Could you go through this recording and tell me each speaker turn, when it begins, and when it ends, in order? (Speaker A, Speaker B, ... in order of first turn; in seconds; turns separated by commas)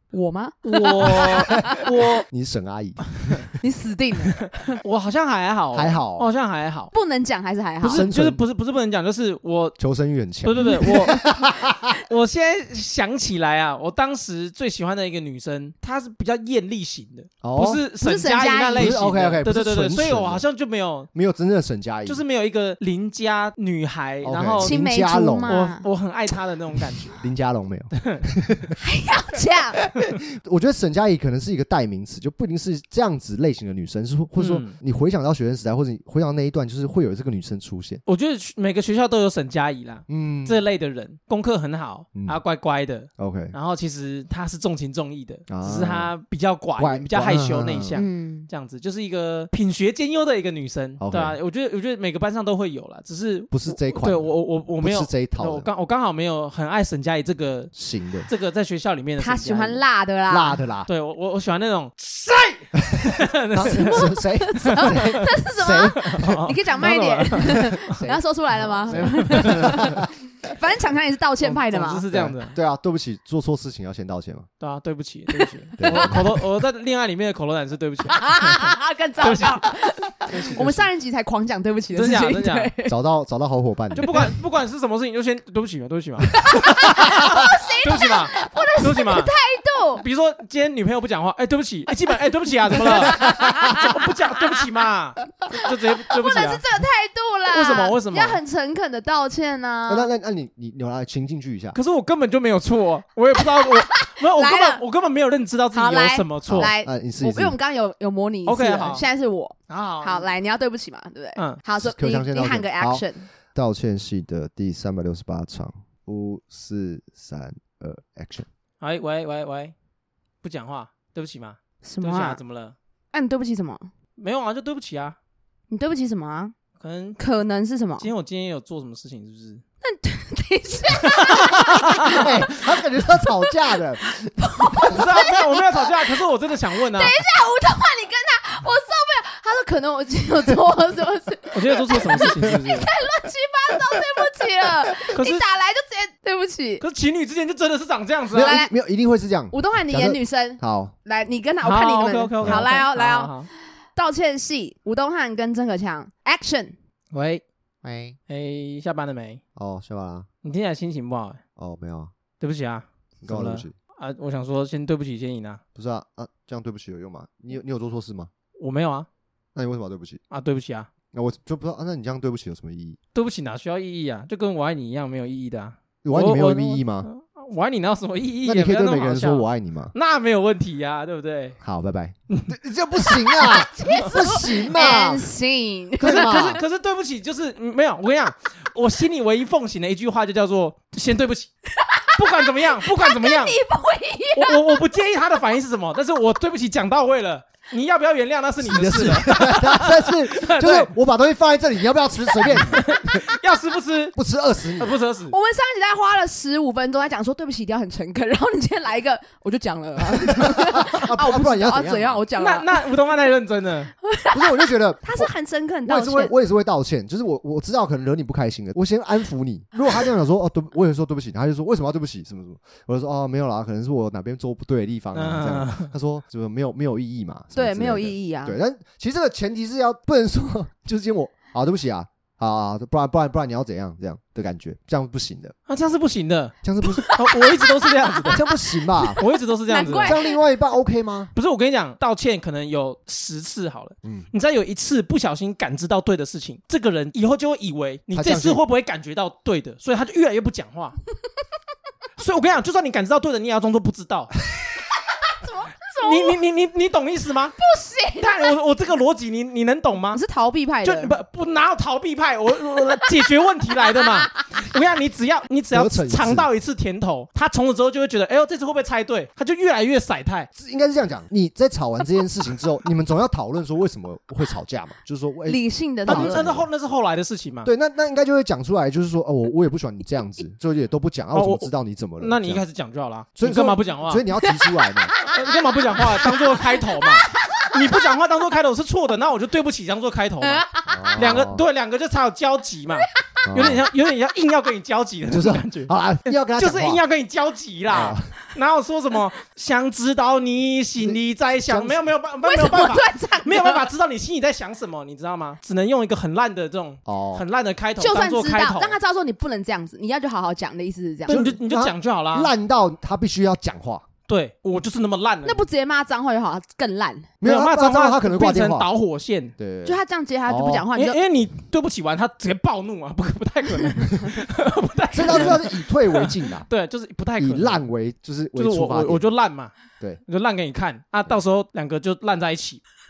Speaker A: 0.1-1.9, Speaker B: 0.6-2.2, Speaker C: 1.1-3.5, Speaker B: 3.2-3.5, Speaker A: 3.6-4.8, Speaker B: 4.4-6.9, Speaker C: 5.7-6.3, Speaker A: 6.9-8.1, Speaker B: 7.8-9.8, Speaker C: 7.9-8.4, Speaker C: 9.8-11.9, Speaker B: 10.4-11.3, Speaker B: 12.1-21.1, Speaker C: 17.4-17.8, Speaker A: 18.0-19.0, Speaker C: 18.8-20.4, Speaker C: 21.1-22.2, Speaker B: 22.1-24.8, Speaker C: 24.2-25.7, Speaker A: 24.6-25.9, Speaker B: 25.5-27.2, Speaker C: 27.2-28.8, Speaker B: 28.0-28.2, Speaker A: 28.8-29.8, Speaker C: 29.9-38.0, Speaker B: 34.4-34.8, Speaker B: 38.1-57.7, Speaker C: 40.1-40.6, Speaker C: 42.1-42.4, Speaker C: 43.2-43.5, Speaker C: 45.5-46.1, Speaker C: 46.8-48.0, Speaker A: 48.0-48.5, Speaker C: 51.0-51.4, Speaker C: 53.5-55.7, Speaker C: 57.7-58.3, Speaker B: 58.3-59.8, Speaker A: 59.2-60.6, Speaker C: 60.3-60.9, Speaker B: 60.9-64.1, Speaker C: 63.0-66.4, Speaker A: 63.7-72.1, Speaker B: 64.6-65.4, Speaker B: 66.0-68.0, Speaker C: 67.4-70.1, Speaker B: 68.9-70.0, Speaker B: 71.4-72.6, Speaker C: 72.1-74.5, Speaker B: 74.6-78.7, Speaker A: 75.3-76.3, Speaker C: 75.8-76.4, Speaker A: 78.1-83.0, Speaker B: 79.2-79.6, Speaker B: 80.3-80.8, Speaker C: 80.3-80.9, Speaker B: 81.9-82.7, Speaker C: 82.9-84.1, Speaker B: 84.0-89.3, Speaker A: 86.3-90.0, Speaker B: 90.0-96.6, Speaker A: 92.8-94.7, Speaker A: 95.5-100.1, Speaker B: 97.5-98.4, Speaker C: 99.9-101.8, Speaker B: 101.7-106.7, Speaker A: 103.4-104.8, Speaker A: 105.7-113.3, Speaker C: 106.5-107.6, Speaker B: 108.5-109.1, Speaker B: 109.7-110.3, Speaker C: 111.8-118.5, Speaker B: 118.8-119.7, Speaker B: 120.4-122.8, Speaker A: 121.8-122.4, Speaker A: 123.1-123.9, Speaker B: 124.2-125.2, Speaker A: 125.7-126.5, Speaker B: 126.8-127.2, Speaker A: 127.2-128.1, Speaker B: 128.0-129.6, Speaker A: 129.8-136.2, Speaker B: 131.0-132.2, Speaker C: 132.1-134.1, Speaker B: 134.9-137.2, Speaker A: 136.9-146.8, Speaker B: 141.5-142.9, Speaker B: 145.1-145.4, Speaker B: 146.8-148.6, Speaker C: 148.3-150.9, Speaker A: 148.3-148.7, Speaker A: 149.5-156.8, Speaker B: 151.6-153.5, Speaker B: 157.1-157.4, Speaker C: 157.8-158.2, Speaker B: 158.3-159.4, Speaker C: 159.6-160.3, Speaker B: 160.4-161.4, Speaker C: 161.6-162.1, Speaker B: 162.4-165.6, Speaker C: 163.2-163.7, Speaker C: 165.8-168.3, Speaker B: 168.6-169.1, Speaker C: 169.6-170.2, Speaker B: 170.3-170.9, Speaker C: 171.1-173.0, Speaker B: 173.2-181.6, Speaker C: 176.0-177.1, Speaker C: 178.4-179.9, Speaker C: 181.6-185.2, Speaker A: 183.3-186.6, Speaker B: 183.4-184.2, Speaker C: 186.0-186.6, Speaker B: 186.0-191.5, Speaker A: 191.8-194.8, Speaker B: 192.2-193.6, Speaker B: 194.3-200.9, Speaker C: 198.6-203.2, Speaker B: 202.5-204.2, Speaker A: 202.5-202.9, Speaker C: 204.2-205.0, Speaker B: 204.8-205.4, Speaker A: 205.3-212.9, Speaker C: 210.1-212.2, Speaker B: 212.4-213.9, Speaker A: 214.0-216.3, Speaker C: 214.3-215.3, Speaker C: 215.9-235.6, Speaker B: 225.1-225.9, Speaker A: 227.6-228.6, Speaker B: 235.7-238.5, Speaker C: 236.6-237.1, Speaker A: 236.8-240.4, Speaker C: 238.3-239.2, Speaker B: 239.2-240.2, Speaker C: 239.9-241.3, Speaker B: 241.3-251.0, Speaker C: 244.0-244.3, Speaker C: 248.1-248.6, Speaker B: 252.2-254.3, Speaker A: 255.3-256.4, Speaker B: 256.0-257.6, Speaker A: 257.6-258.6, Speaker B: 258.2-260.2, Speaker A: 260.1-261.2, Speaker B: 260.8-270.5, Speaker A: 263.8-264.4, Speaker C: 265.7-266.5, Speaker C: 270.6-276.7, Speaker A: 275.5-276.5, Speaker B: 276.1-277.7, Speaker C: 277.6-282.6, Speaker B: 281.3-284.2, Speaker C: 283.4-285.2, Speaker A: 284.4-288.0, Speaker B: 285.2-309.0, Speaker A: 290.4-291.3, Speaker C: 290.9-291.6, Speaker A: 293.2-293.4, Speaker C: 293.4-293.9, Speaker C: 295.3-297.0, Speaker C: 297.9-298.4, Speaker C: 301.0-302.1, Speaker A: 302.4-303.9, Speaker C: 307.1-307.4, Speaker A: 308.0-311.4, Speaker B: 311.3-312.5, Speaker C: 311.3-314.0, Speaker B: 314.3-315.6, Speaker A: 315.4-317.3, Speaker C: 317.4-318.9, Speaker B: 317.4-319.6, Speaker C: 319.6-320.9, Speaker A: 319.9-321.2, Speaker B: 320.9-327.9, Speaker C: 325.1-326.7, Speaker C: 327.4-329.2, Speaker B: 328.6-329.7, Speaker B: 330.3-332.8